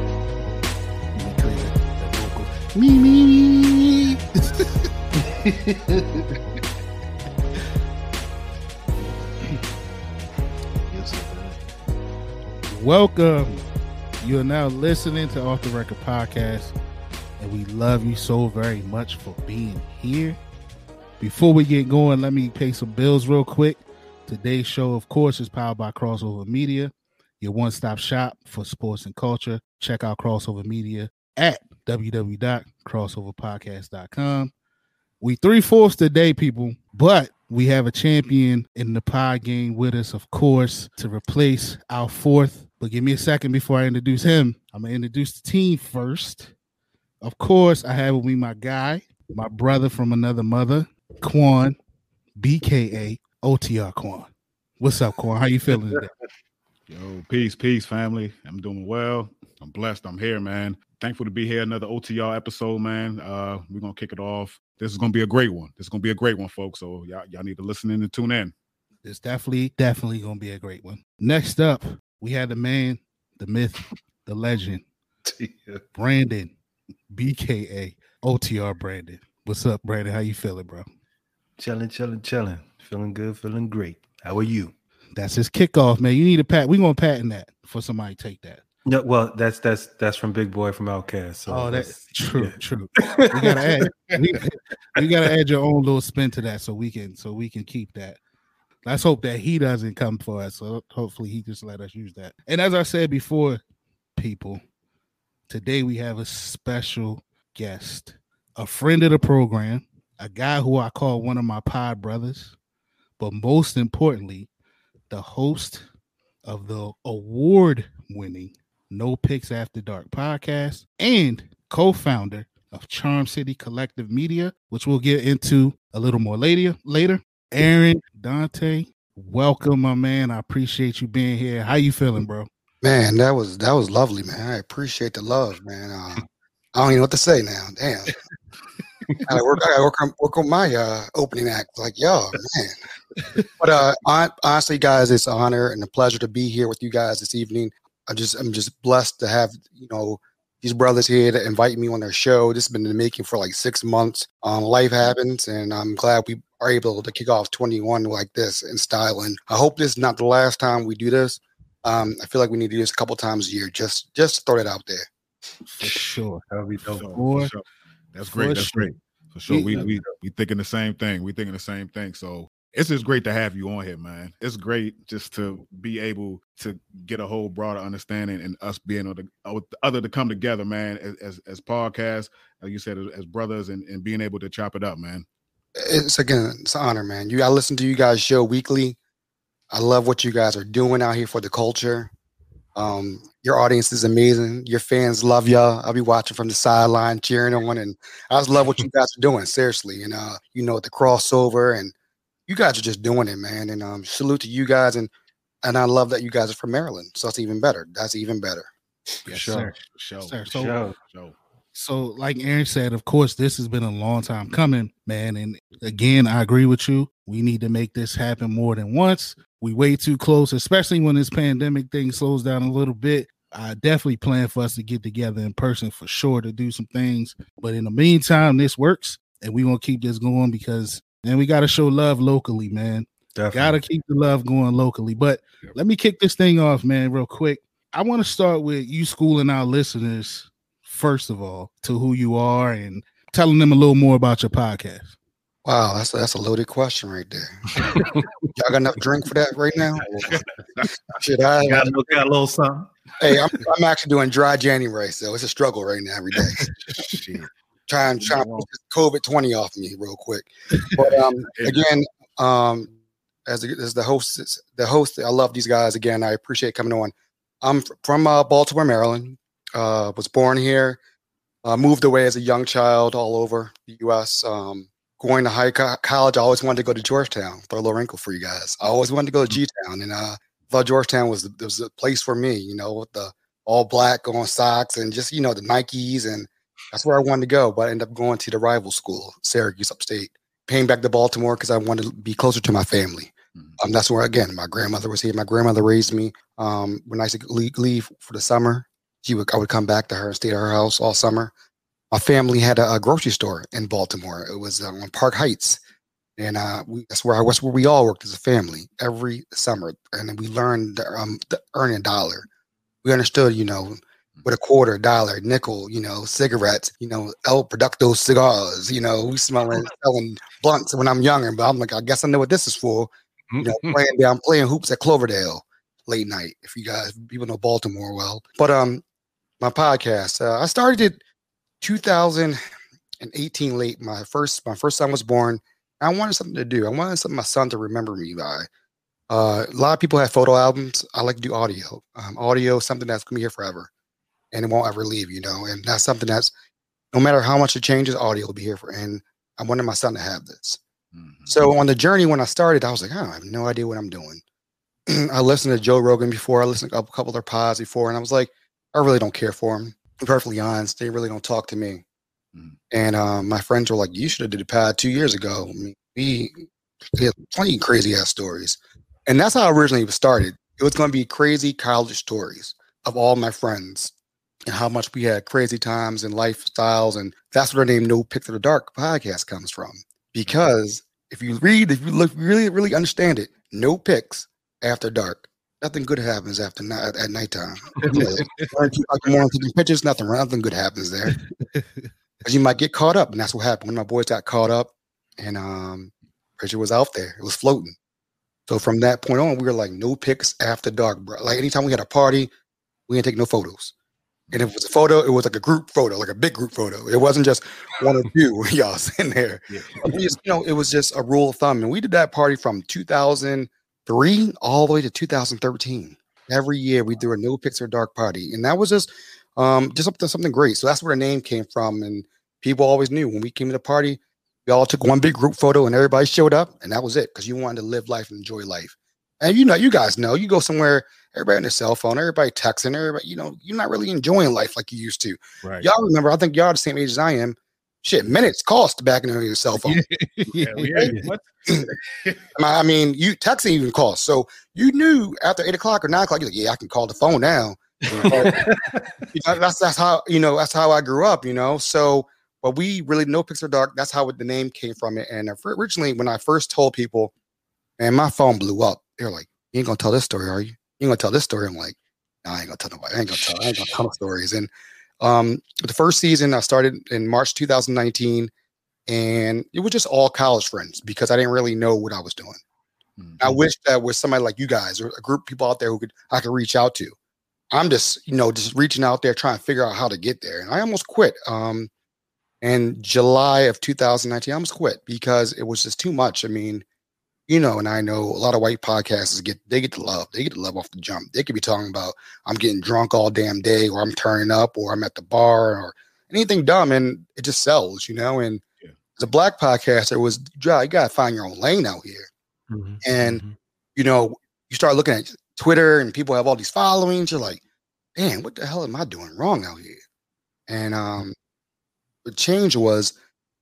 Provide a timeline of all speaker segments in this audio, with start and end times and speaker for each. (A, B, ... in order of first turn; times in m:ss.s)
0:01.2-0:04.7 A
0:05.2-0:06.4 A
0:10.9-0:11.6 A
0:12.7-0:13.6 A
0:14.2-0:16.8 A
0:17.4-0:20.4 A
0:21.2-0:34.5 A
0:35.2-0:46.5 A
0:47.2-0:51.8 A
0:52.4-0:56.1 A
0:56.9-1:08.5 B
1:09.0-1:14.8 A
1:15.3-1:15.8 C
1:16.0-1:16.5 A
1:17.1-1:20.9 A
1:21.6-1:24.7 C
1:25.2-1:28.6 A
1:28.9-1:34.2 C
1:31.5-1:38.2 A
1:38.8-1:43.6 A
1:44.2-1:44.6 A
1:45.5-1:52.5 A
1:53.2-1:54.5 A
1:55.1-1:55.8 A
1:56.4-2:12.5 A
2:12.8-2:18.1 D
2:19.3-2:22.8 D
2:23.6-2:45.1 D
2:45.8-2:46.4 A
2:46.5-2:47.1 C
2:46.9-3:05.3 B
2:47.1-2:47.5 A
2:48.3-2:48.9 A
2:49.5-2:49.9 A
2:49.7-2:50.1 C
3:05.8-3:09.0 D
3:09.7-3:12.1 D
3:12.8-3:21.9 D
3:22.5-3:25.1 D
3:25.6-3:28.7 D
3:29.2-3:29.7 C
3:29.3-3:30.8 A
3:30.2-3:31.4 B
3:30.5-3:31.0 C
3:31.8-4:05.1 A
3:53.4-3:53.8 C
4:05.6-4:07.8 D
4:07.9-4:08.2 C
4:08.6-4:10.3 D
4:10.0-4:10.9 B
4:10.2-4:10.4 C
4:11.1-4:11.9 D
4:11.6-4:13.3 C
4:13.2-4:16.6 D
4:17.0-4:17.5 B
4:17.9-4:22.9 D
4:18.2-4:18.7 B
4:21.5-4:21.8 B
4:23.5-4:31.0 D
4:31.6-5:01.5 D
5:02.1-5:05.8 D
5:06.4-5:12.5 D
5:13.0-5:29.0 D
5:23.5-5:24.0 C
5:29.6-5:31.2 D
5:31.8-5:32.6 D
5:33.2-5:38.7 D
5:39.3-5:43.9 D
5:44.5-5:46.5 D
5:47.1-5:50.8 D
5:51.1-5:51.6 B
5:51.5-5:54.4 D
5:55.1-6:02.0 D
6:02.9-6:06.5 D
6:07.1-6:14.1 D
6:14.7-6:31.4 D
6:32.4-6:37.9 D
6:38.7-6:42.5 D
6:43.1-6:43.9 D
6:44.5-7:20.0 D
7:19.8-7:20.9 A
7:20.5-7:21.4 B
7:21.0-7:21.3 C
7:22.6-7:28.5 D
7:28.1-7:29.1 C
7:29.3-7:37.3 D
7:38.0-7:44.7 D
7:43.3-7:44.0 B
7:45.2-7:48.5 D
7:49.1-7:52.6 D
7:53.2-7:53.6 B
7:53.4-7:57.1 D
7:57.7-8:01.9 D
8:02.6-8:06.8 D
8:07.5-8:18.6 D
8:19.2-8:22.3 D
8:22.7-8:23.6 C
8:23.0-8:23.4 D
8:24.0-8:27.6 D
8:28.2-8:30.0 D
8:30.7-8:31.3 D
8:32.2-8:33.2 D